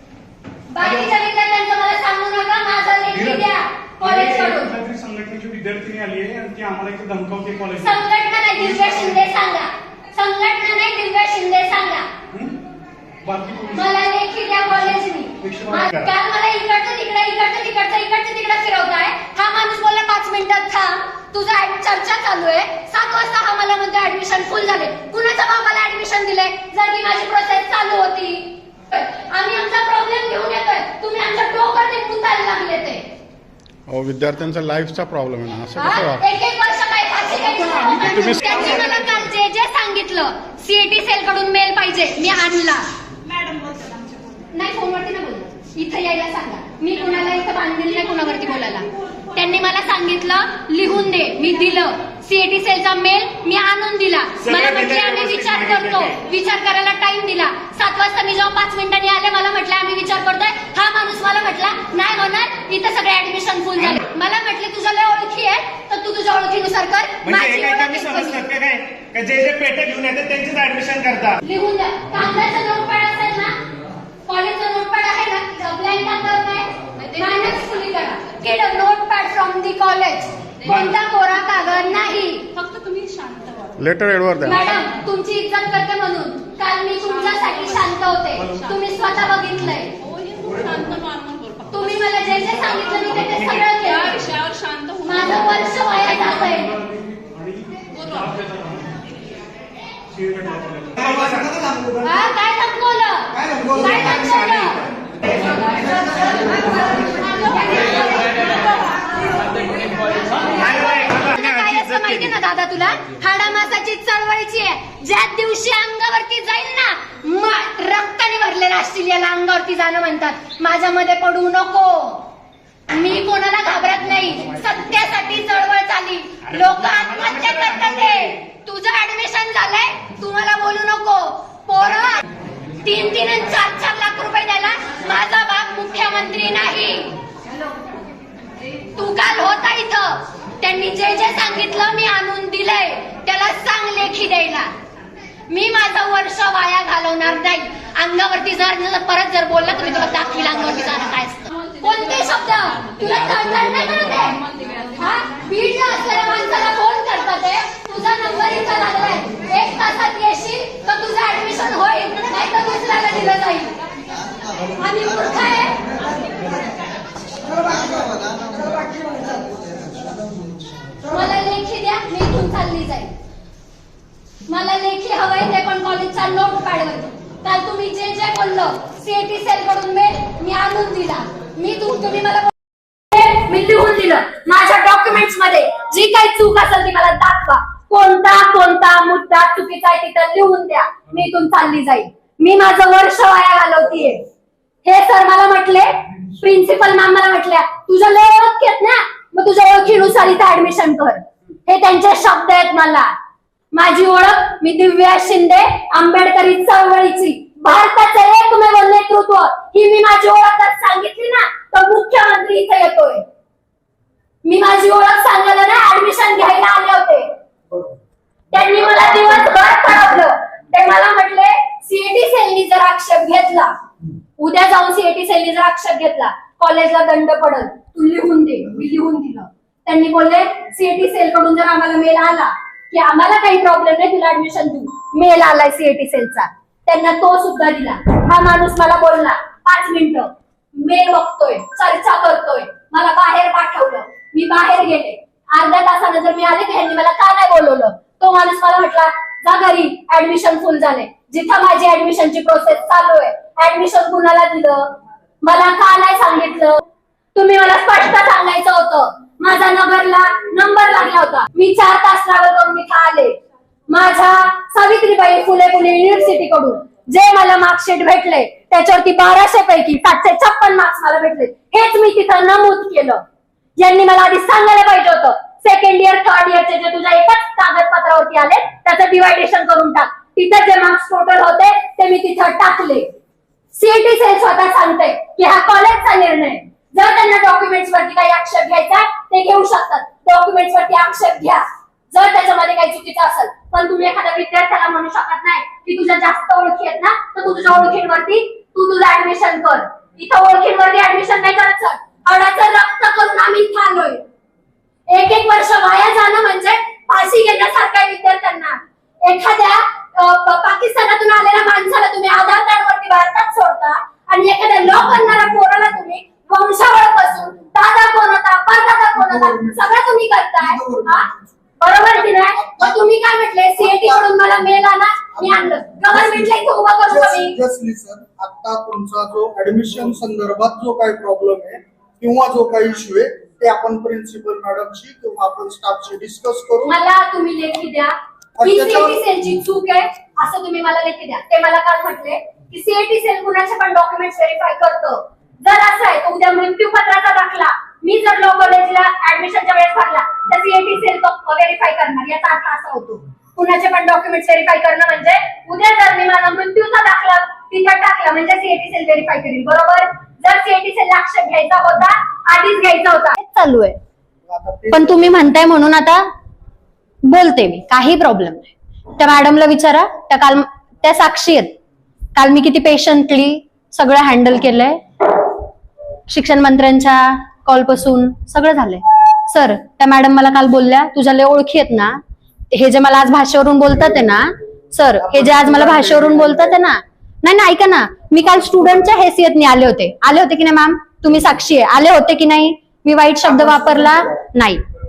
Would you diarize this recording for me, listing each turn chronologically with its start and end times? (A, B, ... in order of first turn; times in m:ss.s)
0:00.7-0:04.7 A
0:00.8-0:01.1 B
0:03.1-0:03.4 B
0:04.0-0:08.0 B
0:07.8-0:12.1 A
0:08.5-0:09.2 B
0:12.3-0:12.6 B
0:13.2-0:13.9 B
0:13.7-0:33.0 A
0:14.7-0:15.9 B
0:33.9-0:36.2 C
0:35.7-0:42.8 A
0:37.5-0:39.3 B
0:43.6-0:44.0 D
0:44.5-1:08.4 A
0:54.4-0:56.1 E
1:07.2-1:11.4 E
1:11.4-1:13.6 A
1:14.3-1:22.5 A
1:20.6-1:20.9 E
1:22.6-1:23.7 D
1:23.8-1:24.6 C
1:24.4-1:29.9 A
1:30.3-1:31.5 D
1:30.4-1:30.9 B
1:31.7-1:34.3 A
1:34.2-1:35.0 D
1:35.0-1:36.7 A
1:36.0-1:39.1 B
1:40.1-1:41.4 B
1:41.1-1:41.5 E
1:42.0-1:44.9 A
1:45.4-2:02.3 A
1:50.6-1:52.3 E
2:02.9-2:12.2 A
2:06.5-2:08.3 E
2:12.8-2:17.1 A
2:19.0-2:24.7 A
2:25.5-2:43.7 A
2:44.8-2:45.8 A
2:46.4-2:46.6 B
2:51.1-2:53.1 A
2:54.5-3:02.5 A
3:03.1-3:14.2 A
3:14.8-3:23.1 A
3:23.7-3:33.2 A
3:34.4-3:37.3 A
3:37.7-3:38.0 F
3:38.5-3:43.7 A
3:38.6-3:39.2 F
3:44.4-4:16.8 A
4:17.3-4:23.4 A
4:23.9-4:33.2 A
4:33.8-4:43.1 A
4:43.7-5:04.2 A
5:05.1-5:21.3 A
5:19.2-5:20.0 F
5:20.6-5:21.6 F
5:21.8-5:27.6 A
5:22.5-5:23.1 F
5:23.8-5:24.2 F
5:25.4-5:37.0 F
5:36.8-6:04.0 A
5:38.6-5:39.2 F
6:04.4-6:05.4 F
6:04.9-6:06.2 A
6:07.2-6:11.7 A
6:12.4-6:15.0 A
6:16.3-6:22.2 A
6:22.7-6:34.8 A
6:25.2-6:26.8 F
6:33.4-6:34.5 F